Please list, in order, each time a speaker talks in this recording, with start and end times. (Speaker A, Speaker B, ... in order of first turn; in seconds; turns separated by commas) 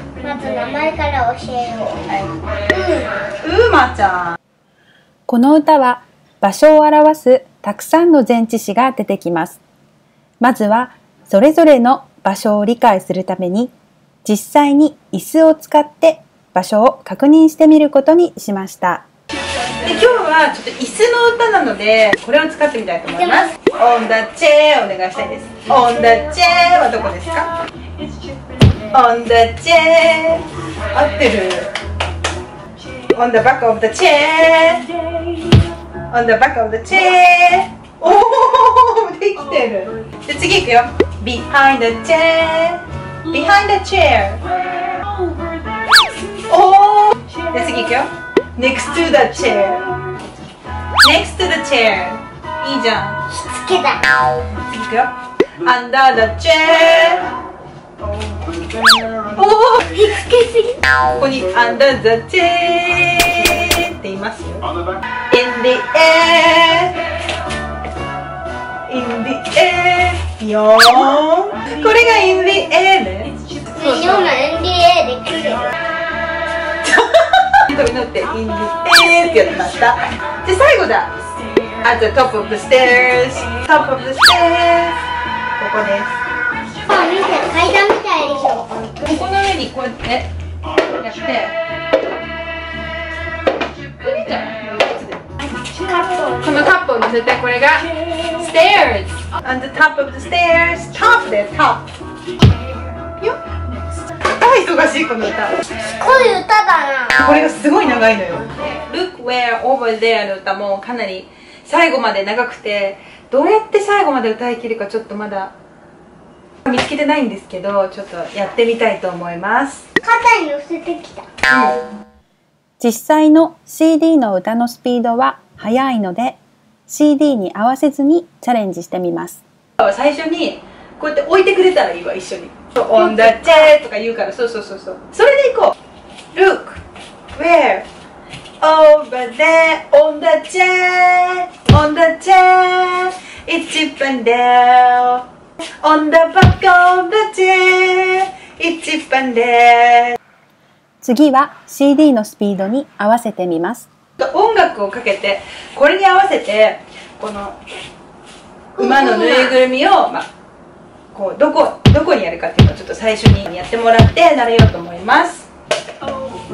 Speaker A: 0.2-2.0, Speaker B: 2.1-2.4, Speaker A: 2.7-3.1, Speaker B: 3.4-4.4, Speaker C: 5.3-9.6, Speaker C: 10.4-13.7, Speaker C: 14.2-19.1, Speaker B: 19.8-27.5, Speaker B: 28.9-31.7, Speaker B: 33.1-34.9, Speaker B: 36.1-44.4, Speaker B: 46.5-50.0, Speaker B: 51.0-53.2, Speaker A: 53.3-54.0, Speaker B: 54.7-55.1, Speaker B: 55.6-57.2, Speaker B: 59.4-59.8, Speaker A: 59.8-60.8, Speaker B: 61.2-64.7, Speaker B: 65.3-67.0, Speaker B: 68.9-73.3, Speaker A: 73.7-75.7, Speaker B: 76.8-81.1, Speaker B: 81.8-85.0, Speaker B: 85.6-86.1, Speaker A: 86.9-89.0, Speaker B: 89.0-90.3, Speaker B: 91.0-91.6, Speaker B: 94.0-95.2, Speaker B: 96.0-101.9, Speaker B: 104.2-105.5, Speaker A: 105.8-107.2, Speaker B: 107.2-115.5, Speaker B: 116.7-119.9, Speaker A: 120.0-121.3, Speaker B: 121.5-121.8, Speaker C: 122.8-129.4, Speaker B: 129.8-135.8, Speaker B: 136.3-136.8, Speaker B: 137.3-137.9, Speaker B: 138.6-145.2, Speaker B: 145.8-150.2, Speaker C: 151.0-153.9, Speaker B: 154.2-157.6, Speaker B: 158.8-160.3, Speaker A: 158.8-159.5, Speaker B: 161.1-165.5